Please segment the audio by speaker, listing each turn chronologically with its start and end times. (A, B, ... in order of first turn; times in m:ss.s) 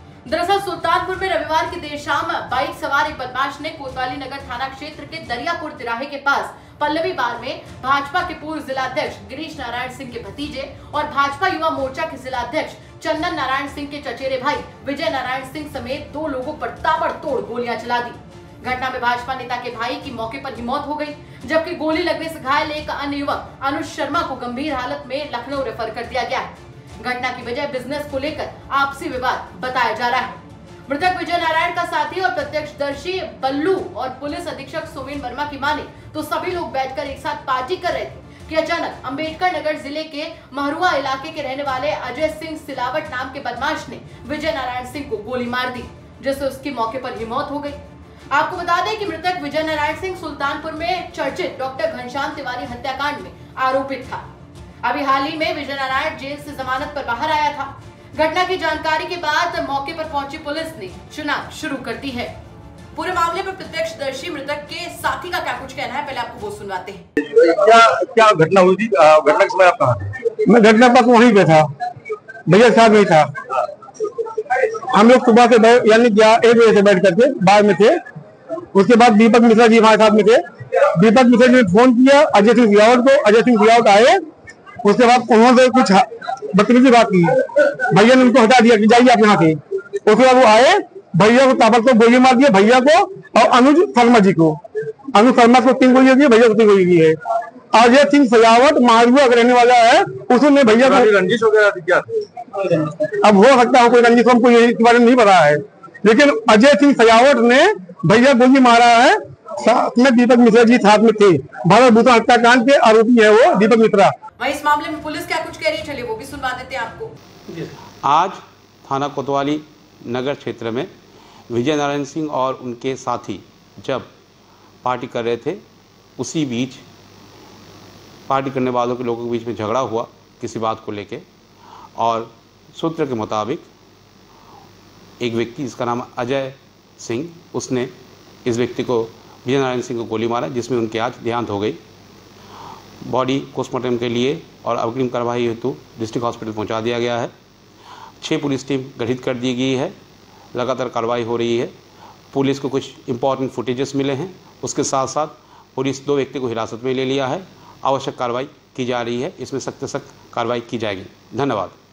0:00.2-0:47.8 A
0:48.3-0:54.2 A
0:54.8-1:02.3 A
1:02.9-1:07.0 A
1:07.3-1:10.1 B
1:10.4-1:11.7 C
1:12.5-1:13.3 C
1:14.9-1:18.0 C
1:18.7-1:20.4 C
1:20.9-1:24.2 C
1:24.8-1:27.4 C
1:27.9-1:34.6 C
1:35.1-1:37.2 C
1:37.7-1:41.1 C
1:40.7-1:42.1 B
1:43.2-1:54.1 C
1:54.4-1:57.1 A
1:57.5-2:00.9 D
2:01.5-2:04.1 D
2:04.8-2:05.6 D
2:06.2-2:06.8 D
2:08.3-2:11.2 D
2:12.0-2:13.7 D
2:15.2-2:17.9 D
2:18.4-2:21.8 D
2:23.0-2:27.3 D
2:28.2-2:29.9 D
2:30.5-2:31.7 D
2:32.3-2:41.8 D